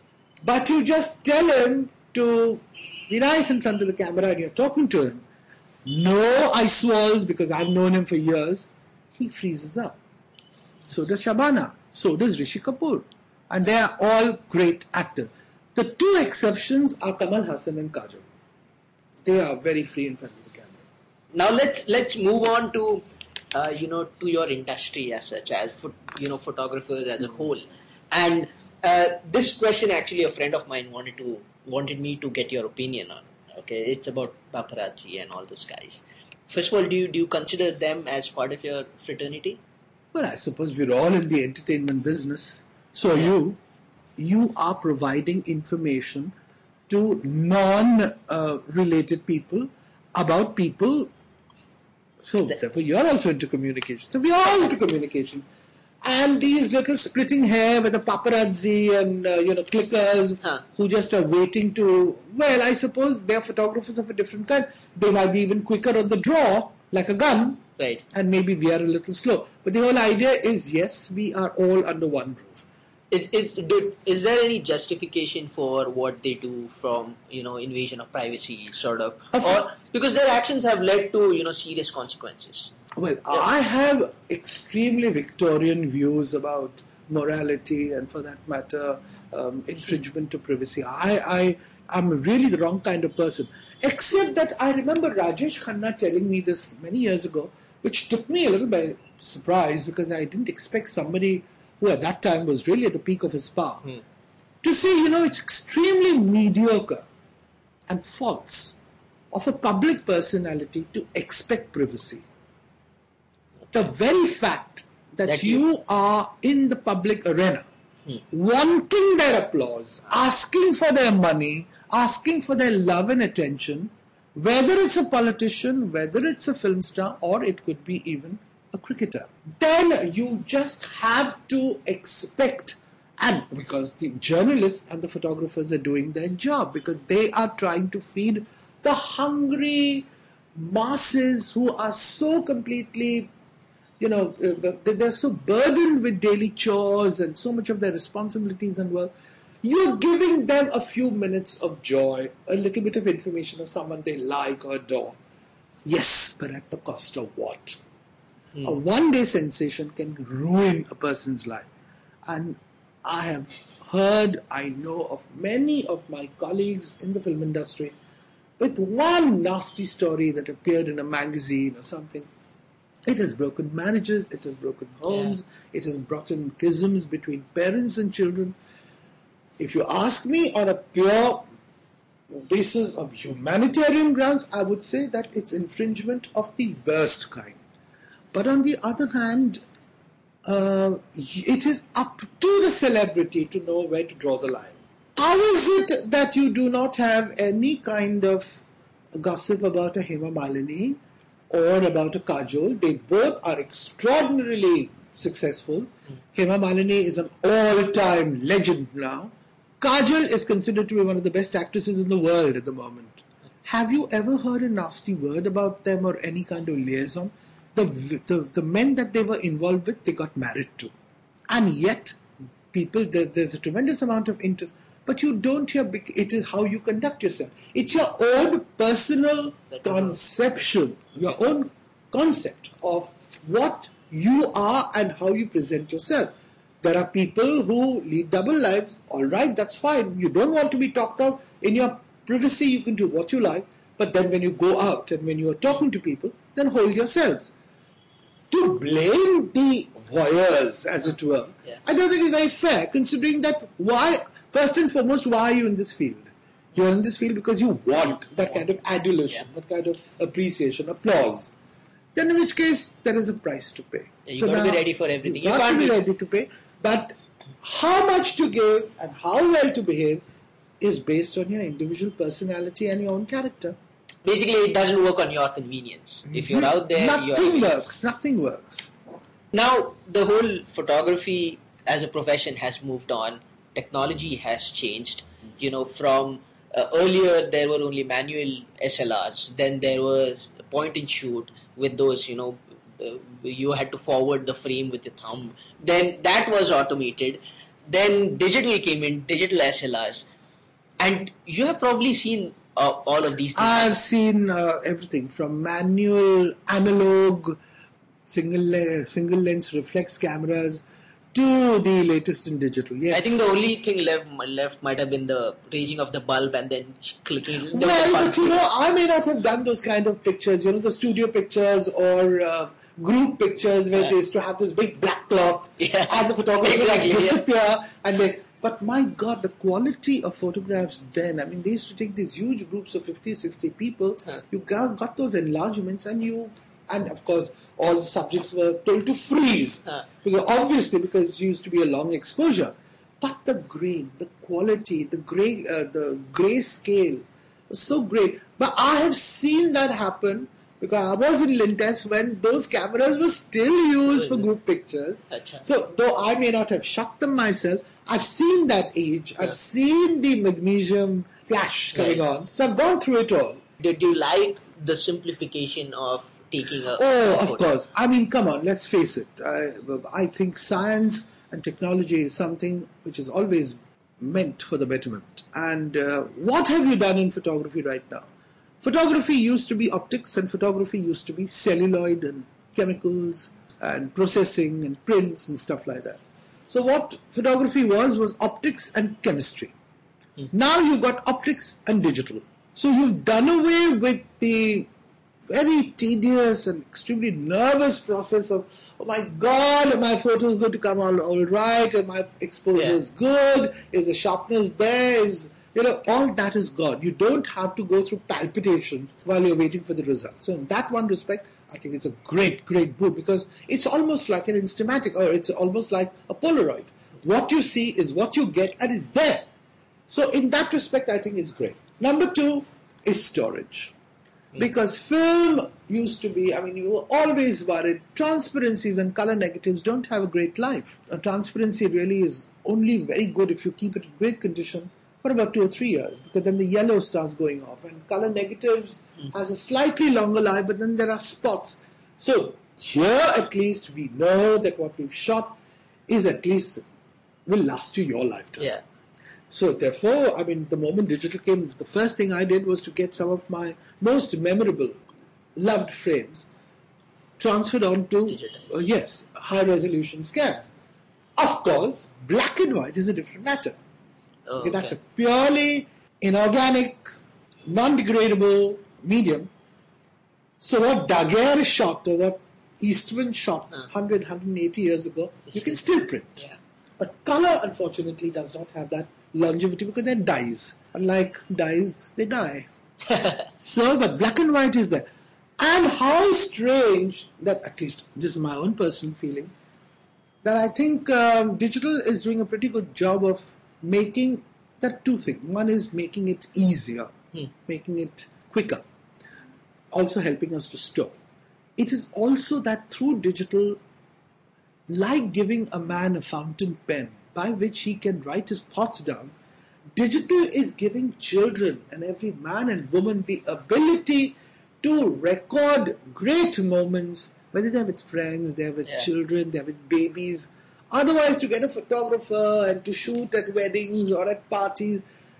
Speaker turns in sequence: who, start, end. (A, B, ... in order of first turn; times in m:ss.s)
0:00.4-0:05.2 A
0:05.8-0:10.0 A
0:10.9-0:18.3 A
0:19.2-0:20.8 A
0:21.3-0:39.6 B
0:40.1-0:43.6 A
0:44.2-0:46.4 A
0:46.9-0:51.1 A
0:52.2-0:55.5 A
0:56.0-1:12.7 A
1:07.8-1:08.0 B
1:13.1-1:22.7 B
1:19.3-1:19.6 A
1:23.0-1:43.9 A
1:44.6-1:47.1 A
1:47.9-1:48.8 A
1:49.3-1:52.3 A
1:53.7-1:57.7 A
1:55.3-1:55.6 B
1:58.3-2:23.3 A
2:24.0-2:29.1 A
2:29.6-2:35.2 A
2:35.8-2:37.8 A
2:38.6-2:41.7 A
2:42.2-2:48.0 A
2:48.6-2:52.3 A
2:53.1-2:58.6 A
2:55.1-2:55.4 B
2:59.6-3:01.5 A
3:02.3-3:07.6 A
3:08.3-3:09.6 A
3:10.4-3:40.9 A
3:41.5-3:42.2 A
3:42.7-4:07.5 A
3:49.7-3:50.1 B
4:08.5-4:21.5 A
4:22.1-4:30.2 A
4:24.3-4:26.0 B
4:30.8-4:33.8 A
4:34.2-4:37.7 B
4:36.3-4:38.9 A
4:39.5-5:00.3 B
5:01.0-5:04.0 B
5:03.6-5:07.6 A
5:08.3-5:13.5 A
5:13.1-5:18.6 B
5:17.6-6:03.6 A
5:25.8-5:27.4 B
5:55.3-5:55.6 B
6:01.9-6:02.2 B
6:03.8-6:07.6 B
6:06.9-6:18.3 A
6:18.8-6:29.8 A
6:30.5-6:34.9 A
6:35.5-6:59.5 A
7:00.1-7:03.9 A
7:04.6-7:26.8 A
7:27.5-7:28.7 A
7:29.5-7:35.0 A
7:35.6-7:36.5 A
7:37.4-7:40.7 A
7:38.3-7:38.8 B
7:41.4-7:43.8 A
7:44.5-7:45.0 B
7:44.6-7:47.1 A
7:47.7-7:49.5 A
7:50.6-7:56.5 A
7:57.0-8:02.7 A
8:03.1-8:03.5 B
8:03.6-8:05.1 A
8:05.6-8:09.5 A
8:10.4-8:18.9 A
8:19.9-8:21.2 A
8:21.8-8:23.8 A
8:24.9-8:29.3 A
8:30.0-8:45.0 A